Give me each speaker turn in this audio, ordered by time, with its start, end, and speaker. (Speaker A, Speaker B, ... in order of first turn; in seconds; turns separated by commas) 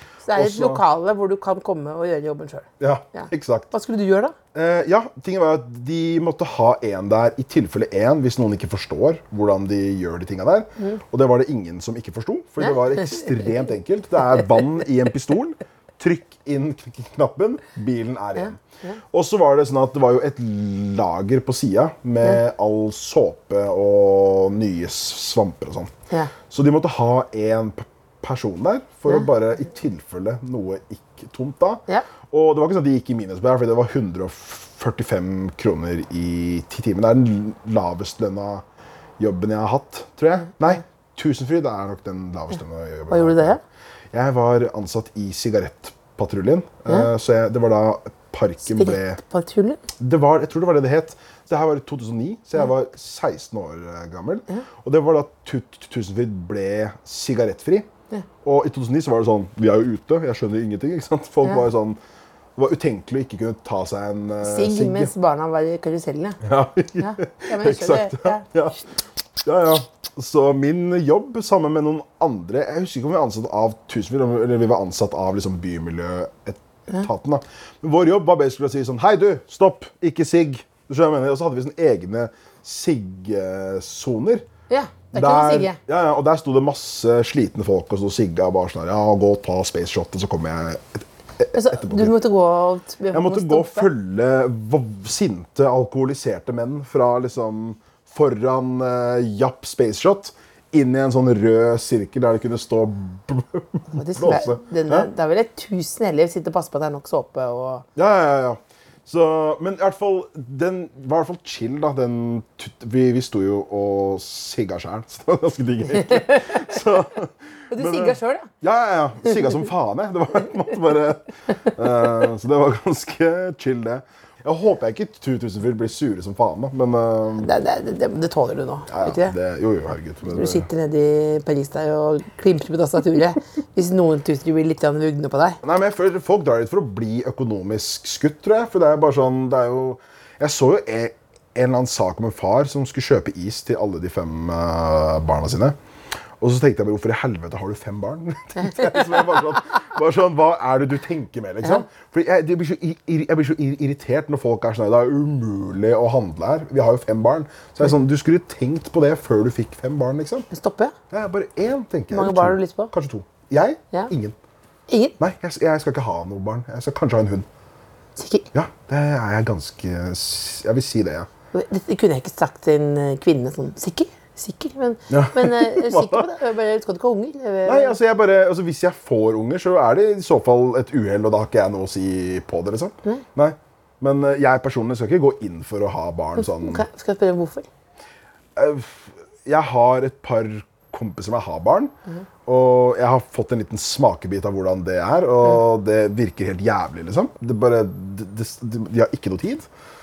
Speaker A: 0.2-4.3, Speaker B: 0.3-0.8, Speaker B: 2.8-3.7, Speaker B: 4.5-25.9, Speaker A: 12.6-13.4, Speaker A: 18.4-19.0, Speaker B: 26.5-38.6, Speaker B: 39.2-43.6, Speaker A: 43.1-43.6, Speaker B: 44.1-49.2, Speaker A: 48.7-49.8, Speaker B: 50.0-57.9, Speaker B: 58.4-62.0, Speaker B: 62.5-65.1, Speaker A: 64.4-66.4, Speaker B: 66.4-68.8, Speaker A: 67.0-68.5, Speaker B: 69.4-84.5, Speaker A: 84.7-85.8, Speaker B: 85.1-92.1, Speaker A: 91.5-93.9, Speaker B: 93.1-105.1, Speaker A: 103.9-107.8, Speaker B: 108.0-127.5, Speaker A: 115.9-116.7, Speaker A: 117.7-118.5, Speaker A: 127.4-129.3, Speaker B: 128.9-130.7, Speaker A: 130.3-135.6, Speaker B: 135.6-145.8, Speaker B: 146.4-160.5, Speaker A: 148.6-149.6, Speaker A: 160.5-160.9, Speaker B: 161.1-164.3, Speaker A: 162.1-162.9, Speaker A: 164.9-165.2, Speaker B: 165.2-167.5, Speaker A: 168.2-168.5, Speaker B: 168.5-171.3, Speaker A: 171.5-177.9, Speaker B: 175.1-176.3, Speaker B: 177.7-186.8, Speaker A: 186.4-187.7, Speaker B: 188.6-191.9, Speaker B: 192.4-199.7